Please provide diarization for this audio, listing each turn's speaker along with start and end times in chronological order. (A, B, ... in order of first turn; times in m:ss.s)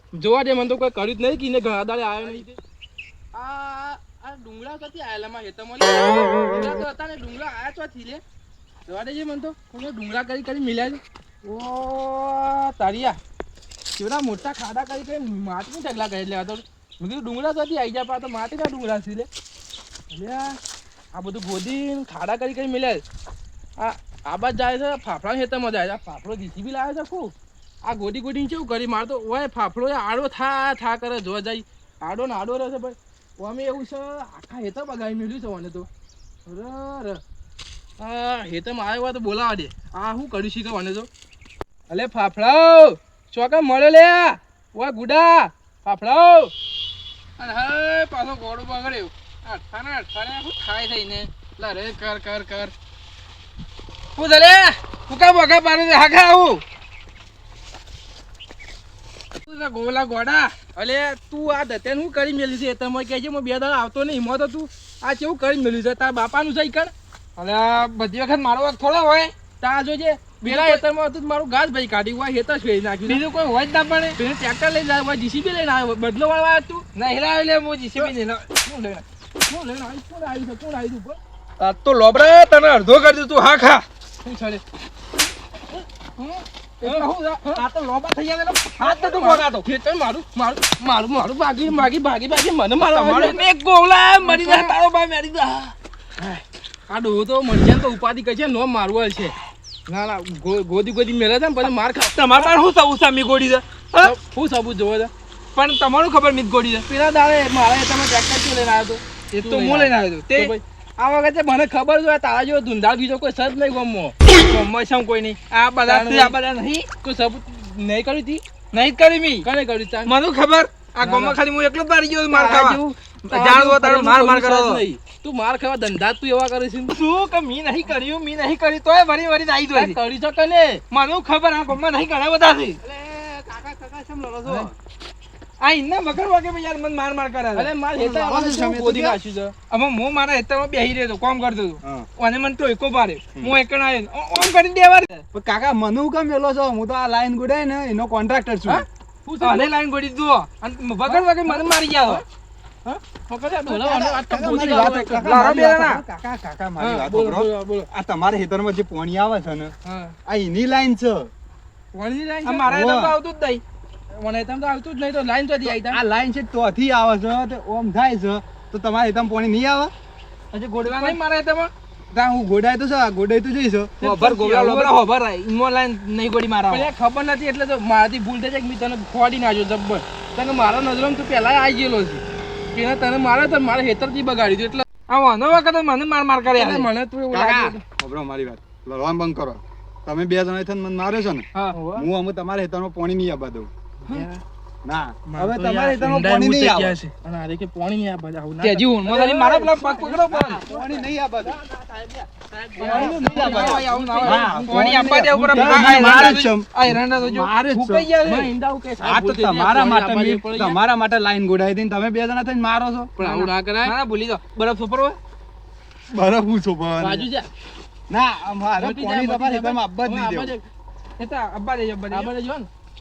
0:00.1-0:02.5 A
0:03.3-0:08.2 A
0:08.9-0:13.2 A
0:14.0-0:19.3 A
0:20.1-0:20.6 A
0:21.1-0:23.0 A
0:23.8-0:27.3 A
0:27.8-0:35.9 A
0:36.4-0:37.2 A
0:38.0-0:41.1 A
0:41.9-0:46.5 A
0:47.4-0:50.4 A
0:50.0-0:51.3 B
0:51.4-0:52.7 A
0:54.2-0:56.6 A
0:59.5-1:00.5 B
0:59.6-1:00.0 A
1:00.5-1:06.9 A
1:07.4-1:09.3 B
1:09.6-1:13.2 A
1:10.4-1:10.8 B
1:13.0-1:14.2 B
1:14.2-1:16.8 A
1:16.9-1:19.0 B
1:19.5-1:21.2 A
1:21.6-1:23.8 B
1:24.2-1:24.6 A
1:26.2-1:29.6 B
1:26.8-1:27.6 A
1:28.8-1:33.4 A
1:32.9-1:35.7 B
1:34.2-1:34.7 A
1:36.2-1:39.3 A
1:39.9-1:42.4 A
1:42.1-1:44.1 B
1:44.0-1:45.1 A
1:45.5-1:46.8 B
1:46.9-1:54.1 A
1:49.3-1:50.5 B
1:54.4-1:56.8 B
1:55.8-1:56.4 A
1:57.0-1:58.4 A
1:58.7-1:59.5 B
1:59.4-2:00.1 A
2:00.0-2:04.8 B
2:01.0-2:01.4 A
2:02.3-2:06.9 A
2:06.9-2:10.0 B
2:09.7-2:10.8 A
2:10.9-2:12.8 B
2:12.8-2:14.7 C
2:15.6-2:17.7 B
2:17.6-2:19.5 A
2:18.0-2:19.2 C
2:19.7-2:25.2 B
2:25.3-2:28.8 C
2:29.2-2:29.7 A
2:29.4-2:32.2 B
2:31.1-2:32.2 A
2:32.8-2:35.5 A
2:33.6-2:39.7 C
2:35.2-2:36.0 B
2:36.8-2:37.9 A
2:39.8-2:40.1 A
2:40.2-2:41.3 C
2:41.9-2:42.7 A
2:42.4-2:43.6 B
2:42.6-2:43.2 C
2:44.1-2:46.0 A
2:45.6-2:49.9 C
2:50.5-2:51.7 B
2:50.8-2:51.2 A
2:52.1-2:53.9 C
2:54.0-2:54.9 A
2:54.0-2:56.9 B
2:56.7-3:02.2 A
3:02.7-3:04.9 A
3:05.1-3:07.5 B
3:06.5-3:07.8 A
3:07.4-3:13.7 C
3:11.7-3:12.0 A
3:14.1-3:14.4 A
3:14.8-3:17.0 C
3:15.3-3:20.1 A
3:18.6-3:20.6 B
3:19.1-3:21.6 C
3:20.7-3:26.4 A
3:22.8-3:28.5 B
3:22.8-3:28.1 C
3:28.2-3:30.8 A
3:29.0-3:33.1 C
3:33.2-3:33.9 A
3:33.2-3:35.2 B
3:36.1-3:37.3 C
3:37.0-3:37.5 A
3:38.1-3:40.5 C
3:38.8-3:40.6 A
3:41.2-3:42.3 B
3:42.1-3:42.7 A